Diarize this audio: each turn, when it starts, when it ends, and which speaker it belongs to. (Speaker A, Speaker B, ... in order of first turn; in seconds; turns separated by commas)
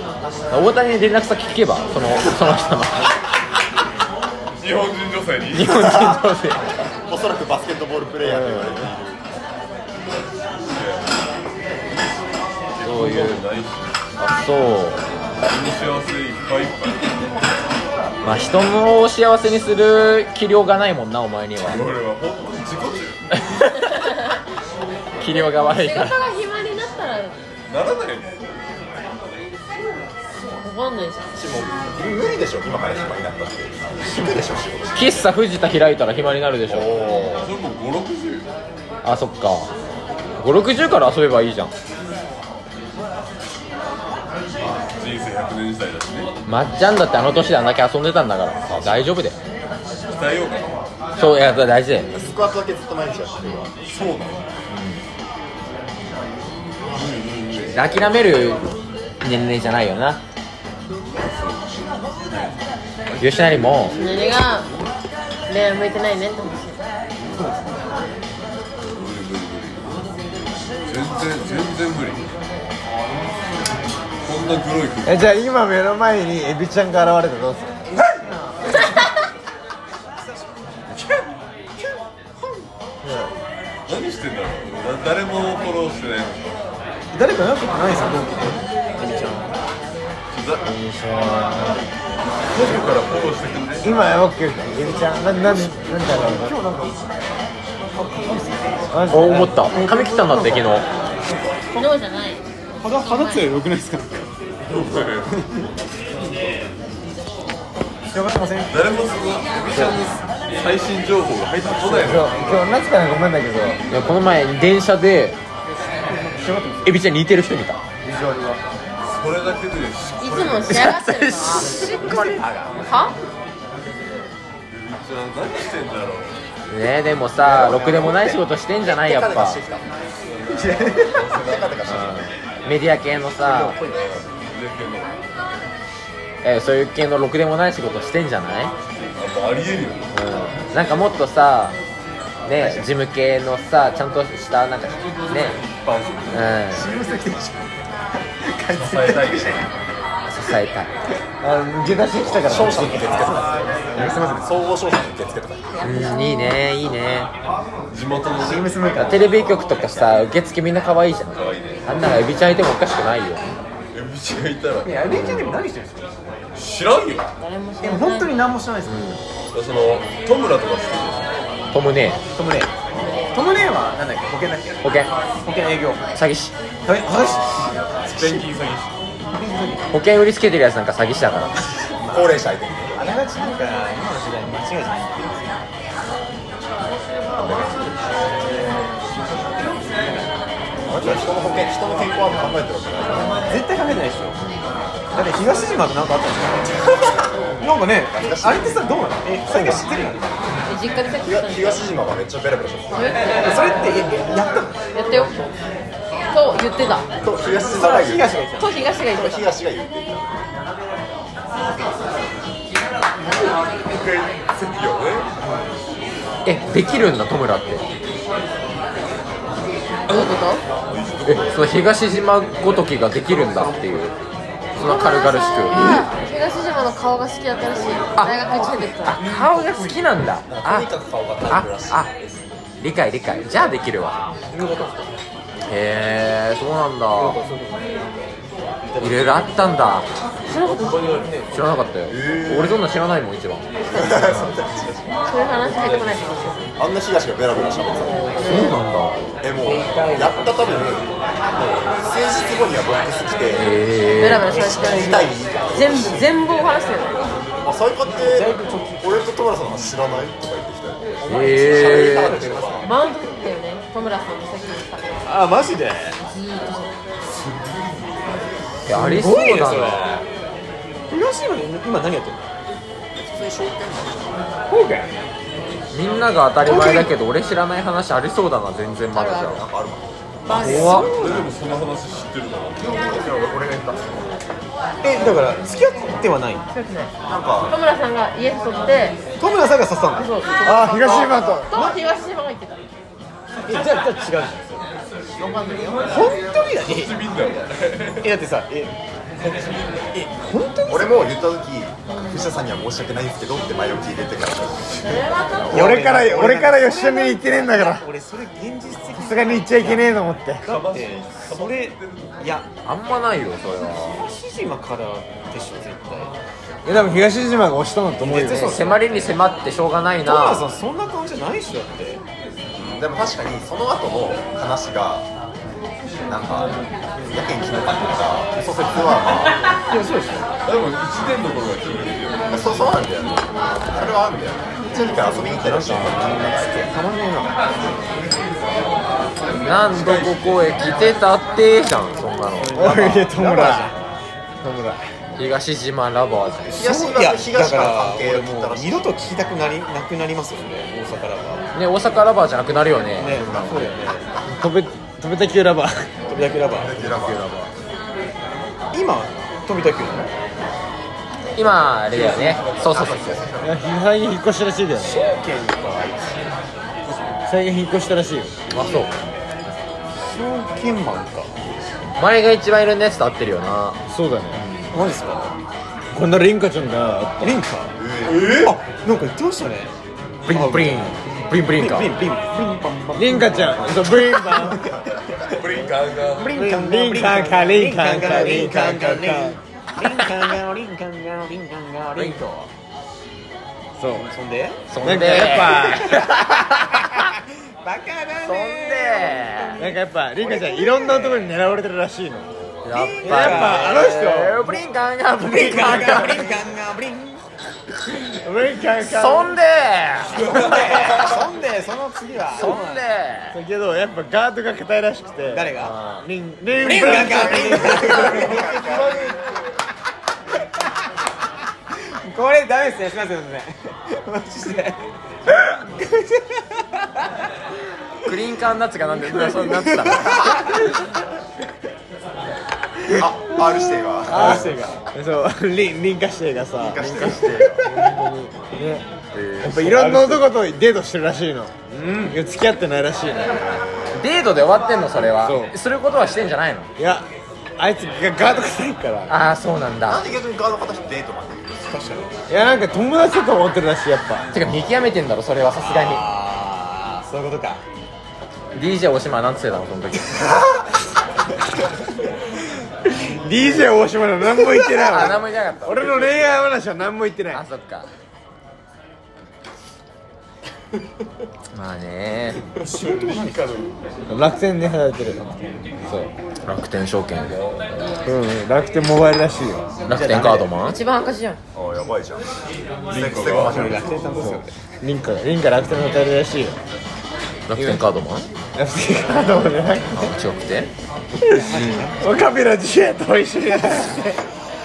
Speaker A: 0.5-3.1, Speaker B: 4.6-5.7, Speaker A: 5.5-6.7, Speaker C: 5.8-6.2, Speaker C: 7.1-9.2, Speaker D: 8.2-8.9, Speaker B: 10.6-11.1, Speaker B: 11.9-13.9, Speaker A: 12.8-13.4, Speaker A: 14.2-15.0, Speaker B: 15.4-17.3, Speaker A: 18.2-21.8, Speaker B: 21.6-23.2, Speaker A: 23.4-24.1, Speaker A: 25.2-26.1, Speaker E: 25.6-27.4, Speaker B: 27.7-28.7, Speaker E: 30.6-31.3, Speaker C: 31.3-35.3, Speaker A: 34.9-36.9, Speaker C: 36.7-37.5, Speaker B: 37.4-38.5, Speaker A: 39.0-39.7, Speaker A: 40.4-41.7, Speaker B: 44.9-46.3, Speaker A: 46.5-49.4, Speaker C: 48.7-49.1, Speaker B: 49.9-50.6, Speaker A: 51.2-52.1, Speaker C: 52.1-53.7, Speaker B: 53.8-54.5, Speaker A: 54.7-55.0, Speaker B: 56.9-58.1, Speaker A: 57.7-58.6, Speaker A: 59.2-60.2, Speaker B: 63.2-64.2, Speaker A: 63.2-64.0, Speaker E: 64.0-64.7, Speaker E: 65.5-66.8, Speaker B: 68.9-70.1, Speaker B: 70.8-72.3, Speaker B: 74.2-75.2, Speaker D: 75.0-77.9, Speaker F: 78.0-78.9, Speaker E: 78.8-79.1, Speaker F: 80.2-81.0, Speaker B: 80.9-81.2, Speaker F: 81.8-82.7, Speaker B: 83.9-86.6, Speaker F: 87.1-89.5, Speaker B: 90.3-90.7, Speaker D: 90.6-91.8, Speaker B: 92.5-93.9, Speaker D: 93.8-96.5, Speaker F: 96.1-97.4, Speaker F: 97.9-98.9, Speaker D: 98.9-99.6, Speaker A: 99.1-100.9, Speaker F: 99.7-100.8, Speaker E: 101.7-103.5, Speaker F: 102.8-104.3, Speaker B: 104.7-105.5, Speaker F: 105.3-105.6, Speaker F: 108.1-108.8, Speaker B: 108.7-112.7, Speaker A: 109.7-110.0, Speaker D: 111.9-113.8, Speaker A: 113.9-115.4, Speaker F: 116.0-117.0, Speaker A: 116.8-117.8, Speaker F: 118.0-118.6, Speaker B: 119.0-120.9, Speaker E: 120.2-121.9, Speaker A: 120.7-122.5, Speaker F: 121.6-122.8, Speaker E: 122.8-123.2, Speaker B: 124.7-126.4, Speaker A: 126.7-129.6, Speaker F: 127.4-128.4, Speaker C: 128.8-129.9, Speaker B: 130.5-131.8, Speaker F: 130.5-131.2, Speaker C: 131.3-132.3, Speaker A: 131.8-133.8, Speaker B: 133.4-135.2, Speaker A: 136.4-138.7, Speaker B: 139.0-140.1, Speaker A: 140.1-141.8, Speaker A: 142.4-145.6, Speaker B: 145.6-146.6, Speaker A: 146.3-146.9, Speaker F: 146.7-147.7, Speaker F: 148.4-149.7, Speaker B: 148.7-149.7, Speaker A: 150.3-150.9, Speaker D: 151.4-153.4, Speaker C: 152.3-155.8, Speaker F: 153.9-154.5, Speaker E: 155.8-156.6, Speaker A: 155.8-157.3, Speaker B: 157.9-159.0, Speaker F: 158.4-159.6, Speaker A: 158.9-163.4, Speaker B: 161.4-161.9, Speaker B: 163.9-165.3, Speaker F: 164.8-166.1, Speaker A: 165.1-165.5, Speaker B: 166.6-167.3, Speaker E: 167.4-168.3, Speaker F: 167.8-169.0, Speaker A: 168.8-169.2, Speaker B: 169.5-171.2, Speaker A: 171.7-172.2, Speaker F: 172.3-172.7, Speaker F: 173.3-174.8, Speaker A: 174.8-175.1, Speaker F: 175.4-176.0, Speaker A: 176.1-176.5, Speaker F: 176.9-178.5, Speaker B: 178.1-178.9, Speaker F: 179.3-179.9, Speaker A: 179.9-181.5, Speaker C: 182.0-183.0, Speaker F: 182.9-185.6, Speaker C: 187.4-187.9, Speaker F: 189.9-190.3, Speaker F: 190.9-191.5, Speaker C: 190.9-193.5, Speaker F: 193.4-194.4, Speaker F: 195.1-196.9, Speaker F: 197.6-200.4, Speaker C: 198.0-198.8, Speaker C: 199.5-199.8, Speaker E: 200.7-201.9, Speaker C: 201.2-203.0, Speaker E: 202.9-203.5, Speaker F: 203.4-204.8, Speaker E: 204.9-205.4, Speaker E: 206.3-207.1, Speaker C: 207.2-208.3, Speaker F: 207.6-208.8, Speaker E: 208.6-209.6, Speaker C: 209.0-210.4, Speaker B: 213.7-215.3, Speaker A: 216.4-217.8, Speaker E: 220.1-220.6, Speaker B: 220.9-221.8, Speaker A: 221.2-224.1, Speaker B: 223.2-224.0, Speaker A: 224.8-226.1, Speaker E: 224.8-229.2, Speaker A: 228.1-230.9, Speaker C: 230.5-232.1, Speaker A: 231.5-232.1, Speaker A: 232.8-234.3, Speaker A: 235.7-237.4, Speaker A: 239.0-240.1, Speaker E: 240.5-241.0, Speaker B: 240.5-242.6, Speaker A: 241.5-243.7, Speaker C: 243.9-245.1, Speaker E: 243.9-244.3, Speaker E: 245.3-246.7, Speaker B: 245.8-246.2, Speaker C: 246.8-248.3, Speaker E: 248.4-248.8, Speaker A: 248.4-249.2, Speaker C: 249.4-253.7, Speaker F: 249.6-250.4, Speaker A: 253.5-254.5, Speaker E: 254.1-257.3, Speaker C: 254.4-256.3, Speaker F: 254.5-255.2, Speaker C: 257.6-262.9, Speaker F: 258.2-259.0, Speaker F: 261.2-262.9, Speaker A: 261.3-262.4, Speaker E: 262.8-265.2, Speaker F: 265.2-266.2, Speaker E: 266.3-266.9, Speaker B: 267.4-267.9, Speaker A: 268.9-270.2, Speaker F: 268.9-270.2, Speaker F: 271.1-272.5, Speaker C: 273.2-274.4, Speaker F: 274.7-275.1, Speaker A: 275.9-279.6, Speaker F: 276.6-277.1, Speaker E: 279.1-279.6, Speaker C: 279.5-280.1, Speaker E: 280.4-281.1, Speaker B: 280.5-283.2, Speaker F: 280.5-281.5, Speaker A: 280.6-281.1, Speaker C: 283.1-283.9, Speaker F: 285.0-286.7, Speaker E: 286.7-287.1, Speaker C: 287.2-287.8, Speaker E: 287.7-289.2, Speaker F: 289.4-291.9, Speaker E: 290.2-292.8, Speaker D: 290.6-291.7, Speaker F: 293.6-294.8, Speaker F: 296.0-297.1, Speaker B: 296.8-298.3, Speaker F: 298.2-301.4, Speaker C: 300.9-305.8, Speaker E: 302.1-302.5, Speaker E: 305.0-305.9, Speaker F: 305.7-312.7, Speaker D: 305.7-308.1, Speaker D: 309.1-310.6, Speaker B: 310.6-312.6, Speaker A: 312.9-314.2, Speaker F: 313.9-316.3, Speaker D: 316.8-318.8, Speaker F: 318.2-319.4, Speaker A: 318.4-320.7, Speaker F: 320.2-322.2, Speaker C: 322.8-325.3, Speaker C: 326.3-326.8, Speaker C: 327.3-329.6, Speaker F: 329.9-330.5, Speaker B: 330.6-332.9, Speaker C: 332.5-336.9, Speaker F: 335.3-337.6, Speaker A: 339.6-343.3, Speaker B: 339.6-340.9, Speaker D: 342.7-343.9, Speaker F: 342.8-343.9, Speaker D: 344.6-345.0, Speaker A: 345.4-346.8, Speaker F: 346.7-351.6, Speaker C: 346.7-349.1, Speaker A: 351.7-354.0, Speaker F: 353.2-354.3, Speaker D: 354.5-356.1, Speaker F: 356.3-357.2, Speaker C: 356.6-357.7, Speaker F: 358.9-360.3, Speaker A: 361.6-363.4, Speaker B: 362.1-362.9, Speaker C: 362.4-363.8, Speaker D: 363.6-365.3, Speaker F: 365.0-366.2, Speaker B: 367.1-367.3, Speaker D: 367.5-368.5, Speaker A: 368.7-369.1, Speaker F: 370.2-371.5, Speaker A: 372.2-374.0, Speaker D: 374.1-374.6, Speaker A: 374.6-374.9, Speaker F: 374.9-375.5, Speaker D: 376.1-377.6, Speaker F: 377.4-377.9, Speaker C: 378.0-378.5, Speaker B: 378.2-378.8, Speaker F: 378.5-379.9, Speaker F: 380.4-381.2, Speaker A: 380.5-382.1, Speaker F: 381.7-385.6, Speaker D: 383.1-384.8, Speaker B: 385.4-386.6, Speaker F: 386.3-392.7, Speaker D: 386.5-390.2, Speaker A: 392.1-392.4, Speaker D: 394.0-394.3, Speaker F: 394.3-401.5, Speaker A: 394.9-397.3, Speaker D: 395.0-396.2, Speaker A: 398.4-399.8, Speaker D: 399.8-402.5, Speaker A: 402.8-406.6, Speaker F: 402.9-404.4, Speaker D: 403.2-404.8, Speaker F: 405.4-407.5, Speaker D: 405.8-406.4, Speaker D: 408.3-409.6, Speaker A: 409.0-411.2, Speaker F: 410.4-413.1, Speaker B: 410.4-411.3, Speaker A: 412.5-413.6, Speaker D: 413.5-418.7, Speaker F: 415.5-416.0, Speaker A: 415.8-416.3, Speaker F: 416.8-419.1, Speaker C: 416.9-419.4, Speaker B: 418.8-419.3, Speaker F: 421.9-427.3, Speaker A: 428.2-430.9, Speaker F: 429.4-430.8, Speaker C: 433.1-434.7, Speaker D: 434.3-439.1, Speaker F: 434.3-435.0, Speaker C: 436.8-437.8, Speaker A: 437.1-437.8, Speaker F: 437.9-438.1, Speaker A: 439.3-439.8, Speaker D: 439.6-443.7, Speaker F: 439.6-440.4, Speaker F: 441.9-442.3, Speaker A: 444.1-446.9, Speaker D: 445.4-445.7, Speaker D: 447.0-447.3, Speaker D: 447.8-449.3, Speaker A: 449.3-450.3, Speaker C: 450.1-451.9, Speaker F: 451.8-452.3, Speaker D: 452.5-454.4, Speaker A: 454.5-456.2, Speaker F: 455.8-457.8, Speaker A: 458.7-460.5, Speaker D: 463.2-467.6, Speaker A: 464.9-466.4, Speaker A: 467.5-468.1, Speaker A: 471.7-472.6, Speaker F: 472.8-473.6, Speaker B: 472.8-473.9, Speaker D: 474.3-476.3, Speaker A: 476.6-477.6, Speaker D: 478.3-479.9, Speaker A: 480.1-481.0, Speaker F: 480.1-480.7, Speaker E: 480.8-481.6, Speaker C: 481.7-482.4, Speaker B: 483.1-483.9, Speaker C: 483.1-484.2, Speaker F: 483.6-484.7, Speaker D: 484.4-486.7, Speaker A: 487.7-488.5, Speaker D: 487.8-488.0, Speaker D: 488.8-490.3, Speaker A: 490.1-490.9, Speaker D: 491.5-494.4, Speaker F: 491.6-492.3